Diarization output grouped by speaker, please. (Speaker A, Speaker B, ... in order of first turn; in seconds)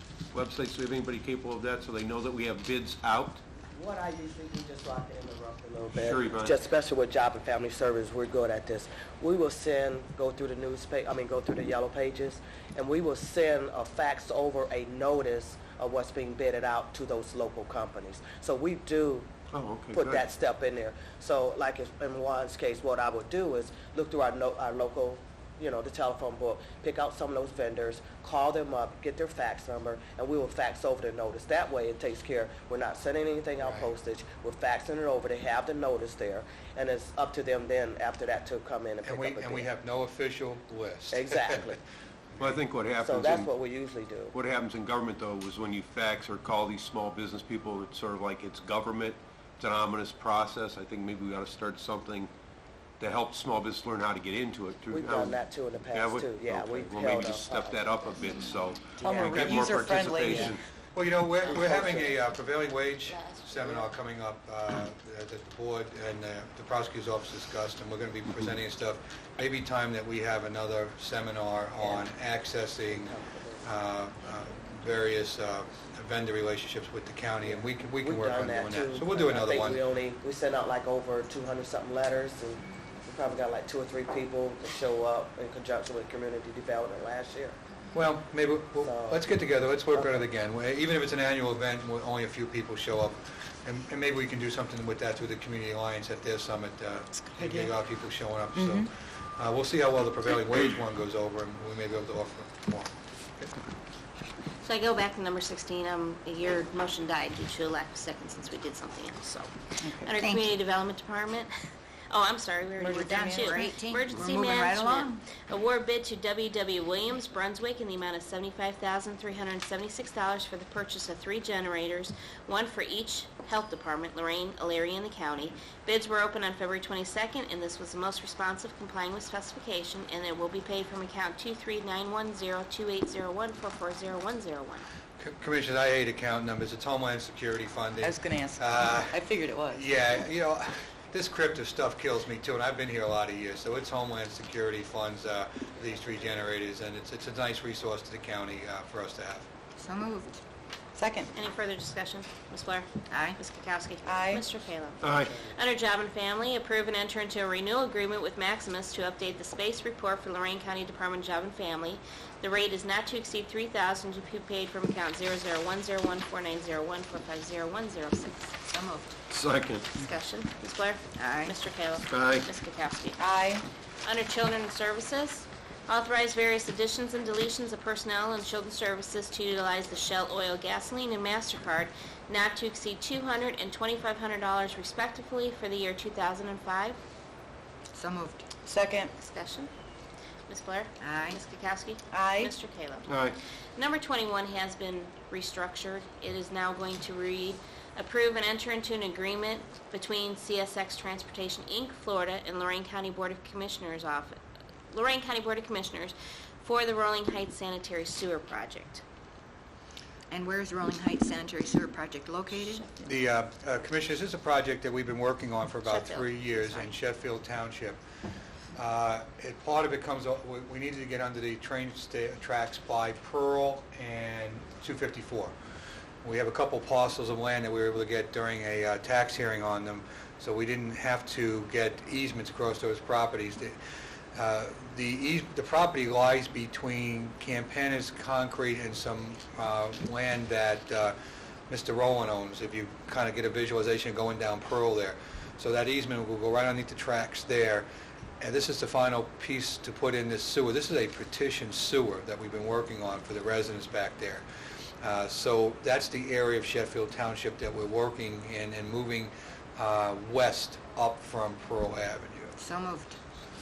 Speaker A: 0.3-3.4, 5.9-6.6, 19.5-20.3, 42.4-43.5, 44.3-52.3, 53.0-60.6, 155.0-155.4, 169.3-170.0, 172.1-172.5, 193.1-193.3
Speaker B: 3.7-19.3, 19.9-39.7, 41.1-41.8, 43.0-44.3, 54.9-58.4, 59.0-60.5, 61.4-62.1, 71.8-72.1, 72.9-73.7, 77.4-87.6, 88.8-89.2, 89.9-90.3, 155.2-155.6
Speaker C: 33.6-33.9, 39.0-41.8, 59.2-59.7, 60.9-79.8, 87.9-103.5, 135.2-149.5, 213.0-218.0, 218.8-225.5, 226.2-233.8, 234.3-241.2, 241.7-247.9, 248.4-254.4, 255.0-262.5
Speaker D: 59.0-60.5, 98.5-98.9, 112.8-113.7, 138.0-139.9, 150.9-151.3, 154.0-154.4, 173.2-173.7, 188.7-189.1, 192.1-192.5
Speaker E: 63.1-63.8, 104.6-111.5, 112.1-134.9, 151.3-168.4, 169.9-173.2, 174.0-187.0, 189.2-189.7, 190.5-193.2, 193.8-204.4, 204.9-209.0, 215.8-216.9
Speaker F: 110.1-110.5, 112.9-115.2, 149.8-150.4, 153.1-153.4, 168.5-169.2, 171.1-171.6, 187.9-188.4, 191.0-191.4, 210.3-213.1, 262.6-263.2